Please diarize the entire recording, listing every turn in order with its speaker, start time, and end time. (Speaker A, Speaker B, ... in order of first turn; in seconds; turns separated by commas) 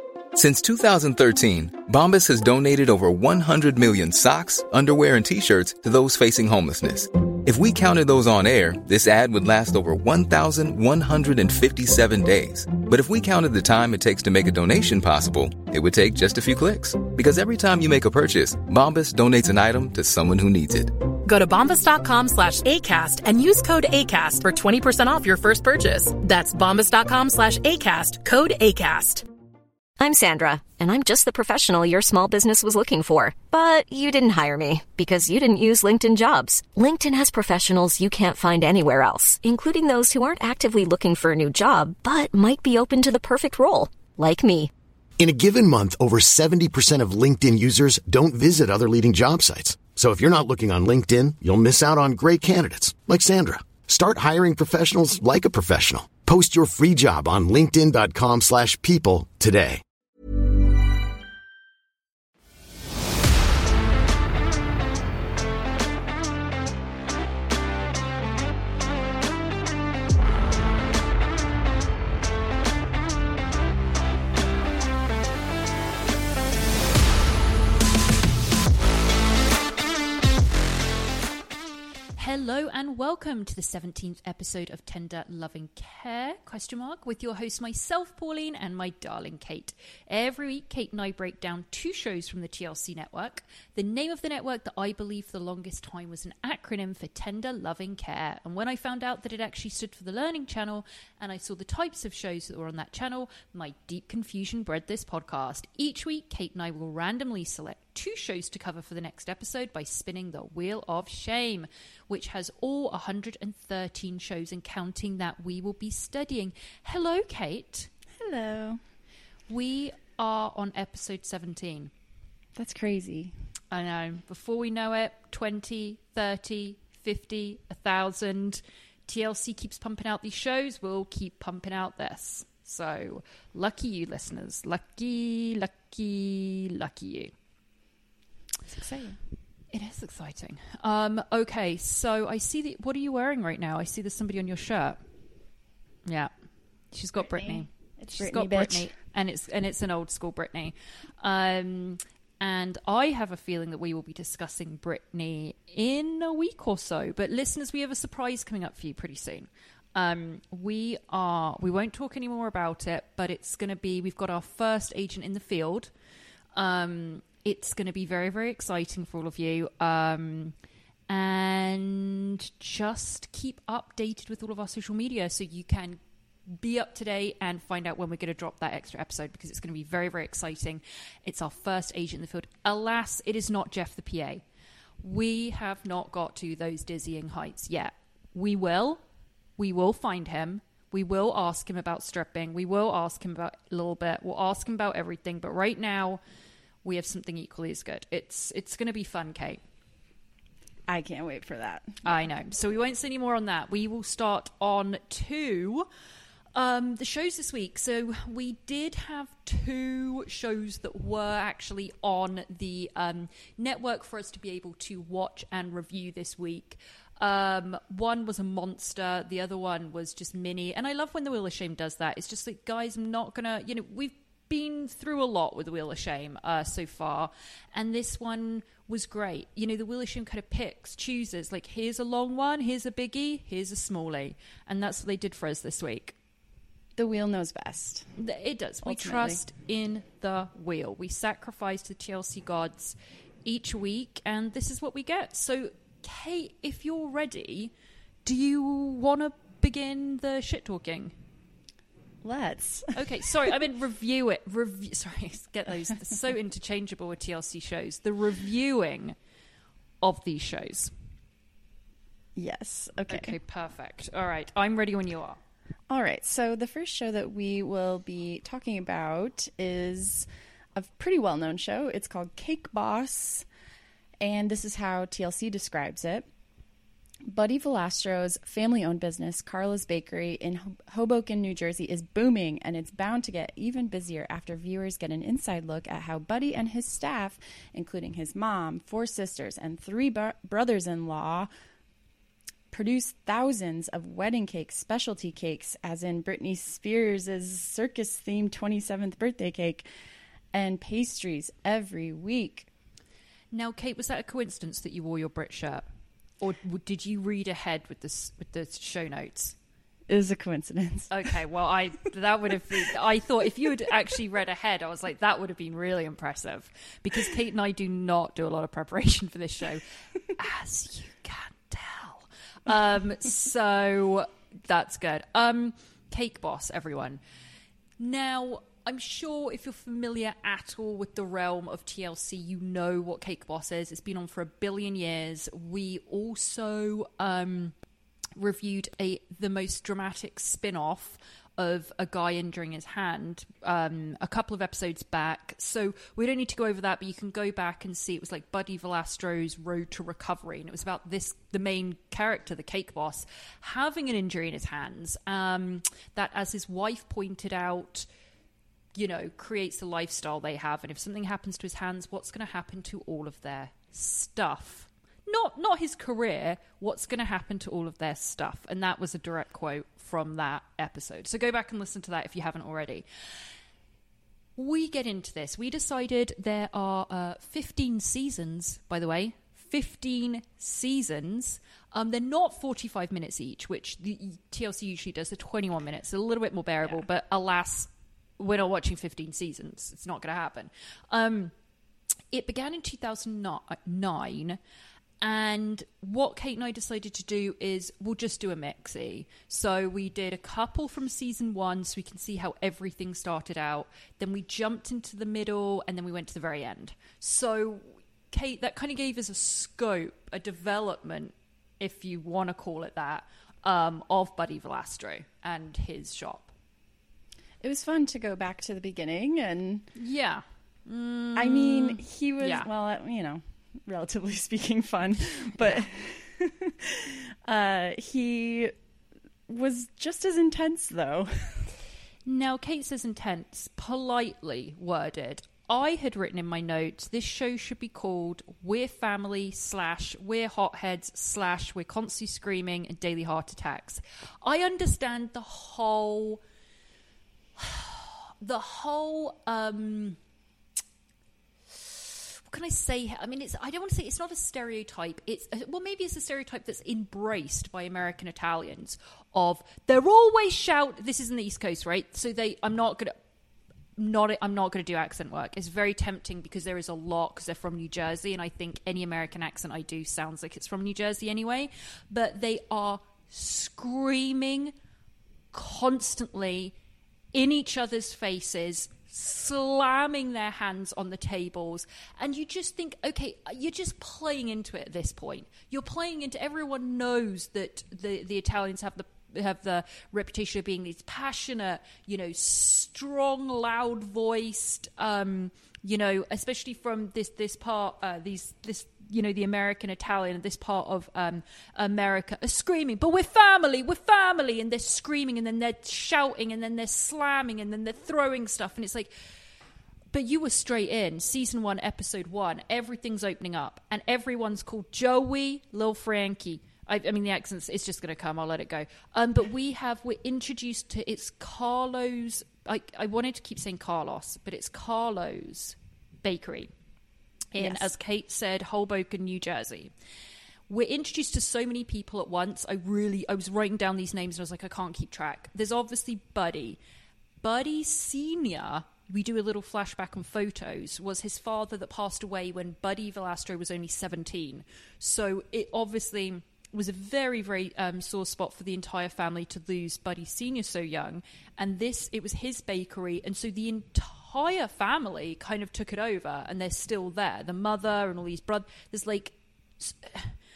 Speaker A: 0.3-21.0, Speaker B: 21.2-29.2, Speaker C: 30.0-44.7, Speaker D: 45.2-59.8, Speaker E: 82.2-117.9, Speaker F: 118.2-118.8, Speaker E: 119.5-121.9, Speaker F: 122.5-123.3, Speaker E: 123.7-137.3, Speaker F: 138.7-139.2, Speaker E: 139.7-145.0, Speaker E: 146.1-146.3, Speaker E: 146.9-165.9, Speaker F: 147.2-148.9, Speaker E: 166.6-170.5, Speaker E: 171.1-184.4, Speaker E: 185.0-189.0, Speaker E: 189.6-196.2, Speaker E: 196.8-199.6, Speaker F: 200.9-202.0, Speaker E: 202.0-205.9, Speaker E: 206.6-236.2, Speaker F: 236.9-238.1, Speaker E: 238.2-247.7, Speaker F: 238.8-239.4, Speaker E: 248.2-251.1, Speaker F: 252.2-253.5, Speaker E: 252.9-259.1, Speaker E: 260.0-260.9, Speaker F: 262.3-263.4, Speaker E: 263.1-265.4, Speaker F: 265.9-273.4, Speaker F: 274.2-276.3, Speaker F: 277.2-291.5, Speaker F: 292.7-299.9, Speaker F: 300.5-302.7, Speaker E: 303.5-305.8, Speaker E: 306.4-309.5, Speaker F: 310.1-311.3, Speaker E: 311.1-319.8, Speaker E: 320.3-327.2, Speaker E: 328.0-337.8, Speaker E: 338.4-358.1, Speaker E: 358.9-373.0, Speaker E: 374.6-391.5, Speaker E: 392.3-394.6, Speaker E: 395.2-416.5, Speaker F: 417.6-419.9, Speaker E: 419.9-422.7, Speaker F: 421.3-428.7, Speaker F: 429.5-431.8, Speaker E: 432.2-446.4, Speaker E: 447.6-450.2, Speaker E: 451.8-463.1, Speaker E: 464.0-474.7, Speaker E: 475.5-476.7, Speaker E: 477.3-509.1, Speaker E: 510.1-526.7, Speaker E: 527.5-529.9, Speaker F: 527.6-527.9, Speaker E: 530.7-536.8, Speaker E: 537.4-560.4